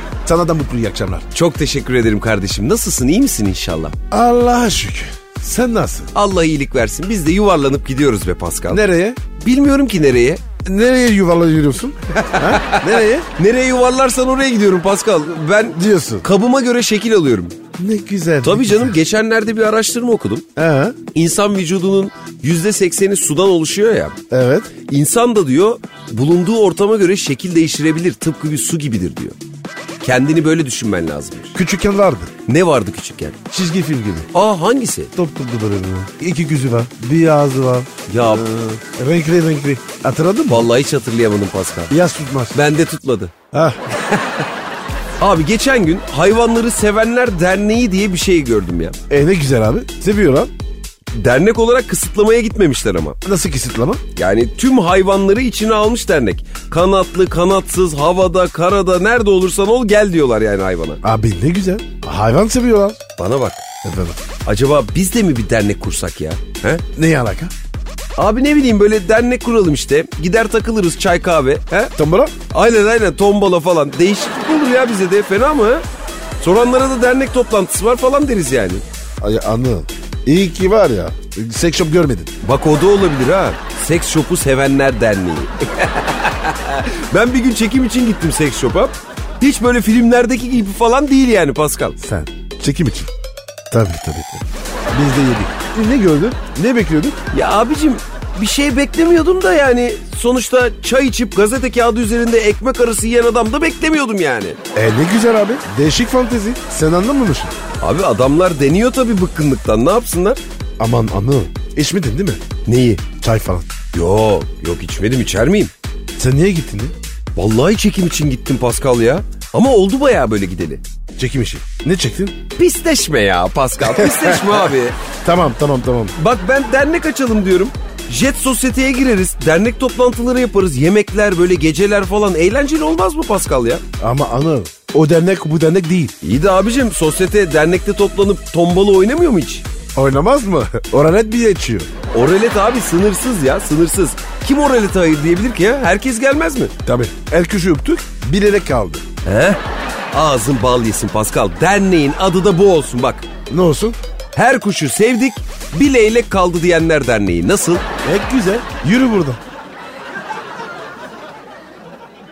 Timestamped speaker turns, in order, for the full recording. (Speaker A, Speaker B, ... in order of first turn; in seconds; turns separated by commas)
Speaker A: 0.2-1.2, Speaker B: 1.3-4.0, Speaker A: 4.1-6.1, Speaker B: 6.1-8.8, Speaker A: 8.7-9.2, Speaker B: 9.3-10.4, Speaker A: 10.6-13.3, Speaker B: 12.1-17.6, Speaker A: 15.7-16.2, Speaker A: 17.8-19.0, Speaker B: 18.4-20.4, Speaker A: 20.6-21.0, Speaker B: 21.1-24.2, Speaker A: 24.3-24.7, Speaker B: 24.9-29.4, Speaker B: 30.0-31.5, Speaker A: 31.5-32.3, Speaker B: 32.5-33.4, Speaker A: 33.5-34.3, Speaker B: 34.3-35.1, Speaker A: 35.1-40.6, Speaker B: 38.1-38.5, Speaker B: 40.5-41.9, Speaker A: 41.9-42.6, Speaker B: 42.5-43.3, Speaker A: 43.5-43.8, Speaker B: 43.9-44.4, Speaker B: 45.2-49.0, Speaker A: 49.1-50.5, Speaker B: 51.1-53.2, Speaker A: 53.2-54.0, Speaker B: 54.1-61.0, Speaker A: 61.0-63.0, Speaker B: 63.2-63.6, Speaker A: 63.8-64.2, Speaker B: 64.4-66.8, Speaker A: 66.9-67.5, Speaker B: 68.2-71.9, Speaker A: 72.0-72.3, Speaker B: 72.5-75.8, Speaker B: 76.4-78.8, Speaker A: 79.2-82.3, Speaker B: 82.4-92.0, Speaker A: 92.0-93.1, Speaker A: 93.7-97.2, Speaker B: 97.3-104.6, Speaker A: 104.7-107.5, Speaker B: 107.8-110.4, Speaker A: 110.8-112.4, Speaker B: 112.7-113.0, Speaker A: 113.2-113.7, Speaker B: 113.9-115.7, Speaker A: 116.2-116.9, Speaker B: 117.3-120.8, Speaker A: 121.2-122.3, Speaker B: 122.6-125.0, Speaker A: 124.0-124.5, Speaker A: 125.2-126.1, Speaker B: 126.2-133.8, Speaker A: 134.0-136.1, Speaker B: 136.2-139.6, Speaker A: 139.9-141.9, Speaker B: 142.1-146.7, Speaker A: 146.8-149.0, Speaker B: 149.2-149.6, Speaker B: 150.1-153.3, Speaker A: 153.5-154.0, Speaker B: 154.3-157.8, Speaker A: 158.0-159.4